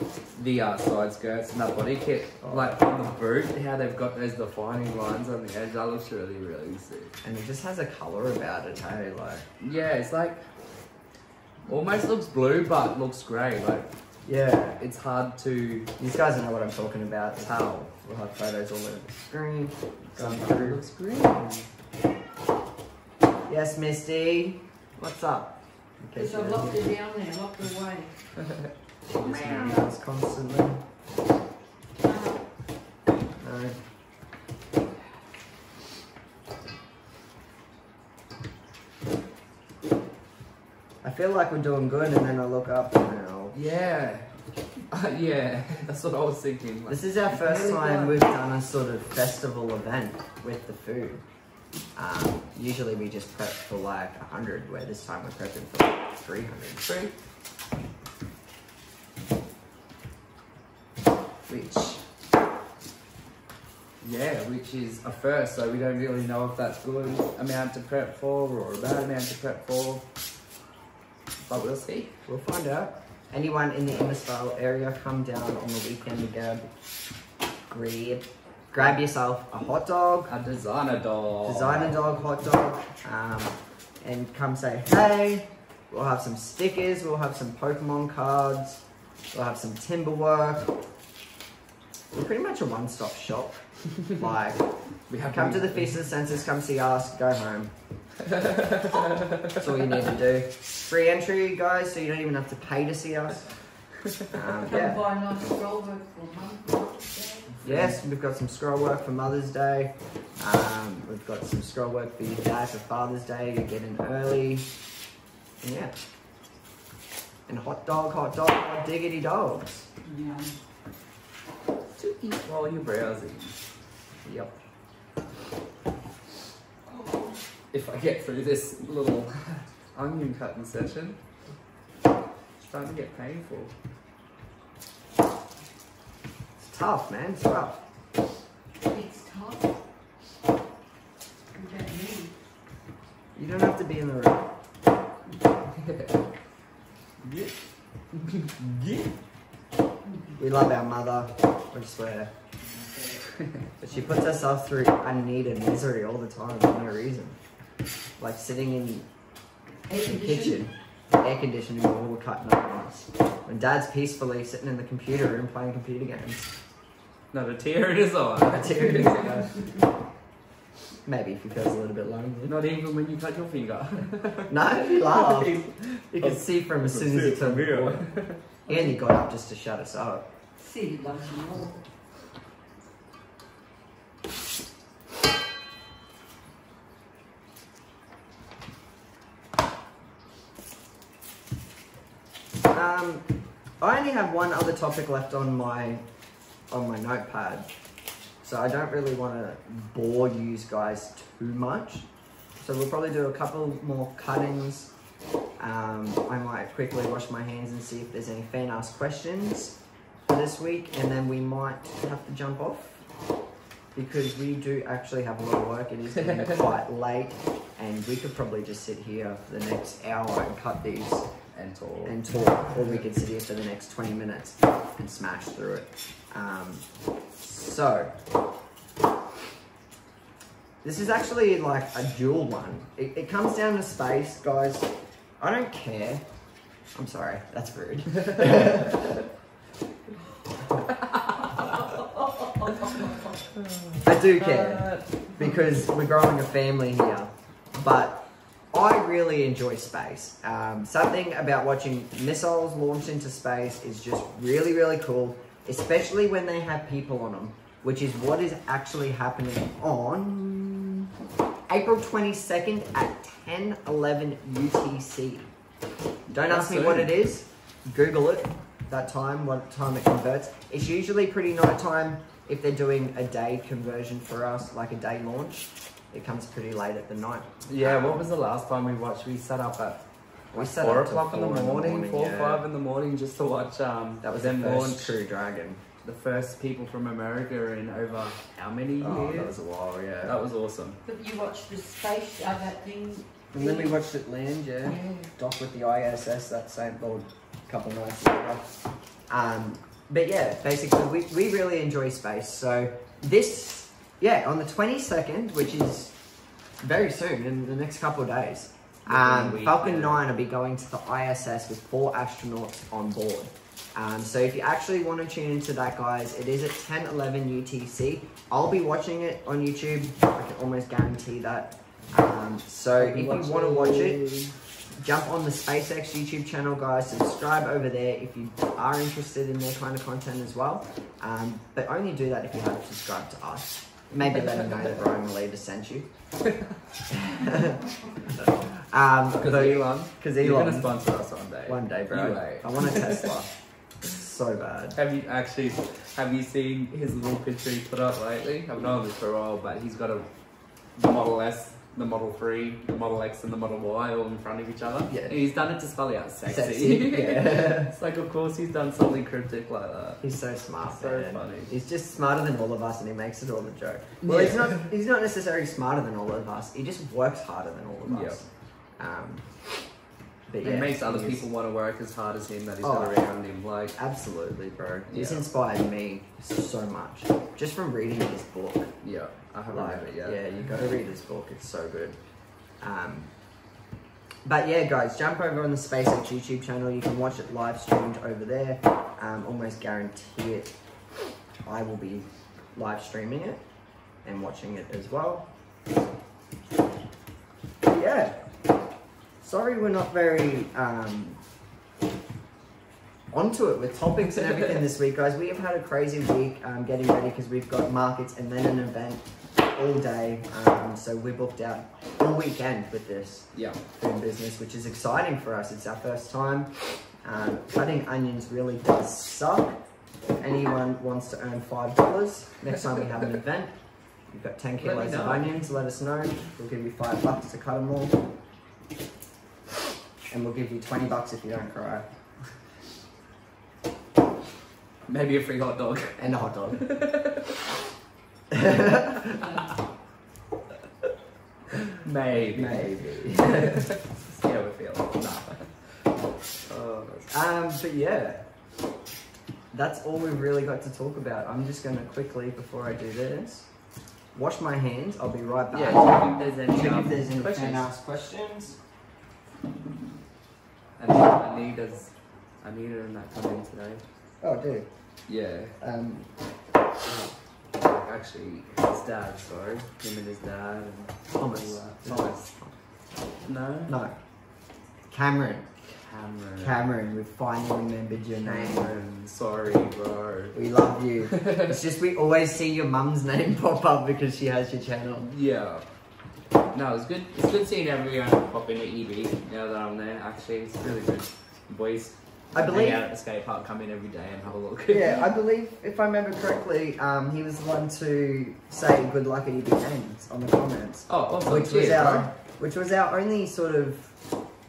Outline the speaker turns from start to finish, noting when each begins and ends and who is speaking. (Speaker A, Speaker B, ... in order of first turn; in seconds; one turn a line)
Speaker A: 0.3-7.1
Speaker B: 2.4-2.8
Speaker B: 7.2-9.4
Speaker A: 9.6-10.5
Speaker A: 11.7-13.9
Speaker B: 14.2-14.8
Speaker A: 14.8-15.9
Speaker B: 16.0-20.8
Speaker A: 20.1-21.7
Speaker B: 23.5-26.8
Speaker C: 26.1-28.1
Speaker B: 29.1-30.8
Speaker A: 29.2-29.9
Speaker C: 32.0-32.4
Speaker B: 33.4-33.8
Speaker B: 41.0-43.6
Speaker A: 43.5-44.3
Speaker A: 44.9-48.2
Speaker B: 46.9-51.2
Speaker B: 52.0-56.9
Speaker A: 56.8-57.1
Speaker A: 61.5-62.0
Speaker A: 64.0-70.0
Speaker A: 71.5-72.1
Speaker B: 72.3-76.7
Speaker B: 77.7-80.3
Speaker A: 80.3-82.0
Speaker B: 81.4-90.7
Speaker B: 92.1-94.7
Speaker A: 95.1-96.0
Speaker B: 95.2-97.7
Speaker A: 98.2-100.0
Speaker B: 99.6-103.5
Speaker B: 104.3-105.0
Speaker C: 104.6-107.6
Speaker A: 107.6-108.0
Speaker B: 107.6-114.7
Speaker B: 115.6-115.9
Speaker B: 117.5-119.9
Speaker C: 120.0-120.5
Speaker A: 122.0-123.6
Speaker B: 124.2-124.5
Speaker C: 126.9-127.4
Speaker A: 127.7-131.2
Speaker A: 132.6-133.7
Speaker B: 136.6-137.8
Speaker C: 138.8-139.7
Speaker C: 141.5-142.3
Speaker B: 143.4-144.5
Speaker A: 145.8-146.1
Speaker A: 147.2-147.5
Speaker A: 148.1-148.7
Speaker C: 150.1-150.3
Speaker B: 150.4-152.3
Speaker B: 153.8-157.4
Speaker B: 158.2-159.1
Speaker C: 159.9-160.6
Speaker B: 160.0-166.5
Speaker A: 167.3-169.4
Speaker B: 168.5-169.5
Speaker B: 171.1-172.6
Speaker A: 172.5-178.4
Speaker B: 174.5-178.1
Speaker B: 178.7-180.3
Speaker C: 180.6-181.8
Speaker B: 192.7-193.2
Speaker B: 193.8-196.0
Speaker B: 196.7-197.7
Speaker B: 198.4-202.1
Speaker B: 202.6-204.9
Speaker B: 205.6-209.8
Speaker B: 210.3-213.0
Speaker B: 213.9-221.3
Speaker A: 216.2-216.8
Speaker A: 221.5-222.2
Speaker B: 222.0-226.8
Speaker B: 227.4-228.1
Speaker B: 230.8-236.2
Speaker B: 236.9-239.2
Speaker A: 238.2-239.1
Speaker A: 240.9-241.5
Speaker C: 242.7-242.9
Speaker A: 243.6-245.6
Speaker B: 244.0-261.1
Speaker B: 261.7-265.5
Speaker B: 266.3-278.2
Speaker A: 266.4-267.1
Speaker A: 277.7-285.1
Speaker B: 280.5-282.7
Speaker B: 284.2-285.8
Speaker A: 286.0-289.6
Speaker B: 289.0-290.3
Speaker A: 290.2-291.0
Speaker C: 291.1-293.9
Speaker B: 293.5-298.7
Speaker A: 294.8-295.3
Speaker B: 299.3-306.1
Speaker B: 306.8-324.3
Speaker A: 309.1-310.3
Speaker A: 323.0-324.6
Speaker B: 325.0-336.1
Speaker A: 336.5-336.7
Speaker B: 337.1-340.9
Speaker A: 339.3-343.3
Speaker B: 341.7-343.5
Speaker B: 344.0-345.0
Speaker A: 344.9-350.3
Speaker A: 351.0-360.2
Speaker B: 355.1-355.4
Speaker B: 356.5-357.9
Speaker B: 360.2-368.5
Speaker A: 360.9-361.7
Speaker A: 364.2-364.9
Speaker A: 368.1-368.4
Speaker B: 369.0-369.5
Speaker B: 370.5-371.5
Speaker A: 370.6-374.0
Speaker B: 372.8-373.2
Speaker B: 374.0-378.9
Speaker A: 375.1-375.4
Speaker A: 379.0-380.4
Speaker B: 379.7-382.2
Speaker B: 382.8-383.3
Speaker B: 384.5-390.7
Speaker B: 391.6-393.6
Speaker B: 394.2-395.5
Speaker B: 397.8-398.4
Speaker B: 399.4-401.4
Speaker B: 403.3-416.7
Speaker A: 413.5-413.8
Speaker B: 417.2-419.8
Speaker B: 420.4-423.7
Speaker B: 424.3-428.2
Speaker A: 424.8-425.6
Speaker B: 430.3-432.1
Speaker A: 435.1-437.6
Speaker B: 436.2-437.0
Speaker B: 438.5-439.5
Speaker A: 442.0-445.8
Speaker B: 442.5-443.9
Speaker A: 446.6-447.4
Speaker B: 447.3-448.4
Speaker B: 449.7-453.7
Speaker B: 454.3-458.8
Speaker A: 455.7-457.9
Speaker A: 461.0-464.0
Speaker B: 464.4-464.9
Speaker A: 465.3-465.7
Speaker B: 465.8-466.3
Speaker A: 467.1-472.5
Speaker B: 471.3-472.8
Speaker A: 473.4-473.9
Speaker B: 473.9-474.1
Speaker B: 475.1-475.7
Speaker A: 475.9-476.8
Speaker B: 476.6-479.0
Speaker A: 478.4-480.6
Speaker B: 480.5-485.3
Speaker A: 481.3-481.8
Speaker A: 485.2-485.9
Speaker A: 486.7-495.4
Speaker B: 492.5-493.0
Speaker B: 494.9-504.1
Speaker A: 501.1-502.3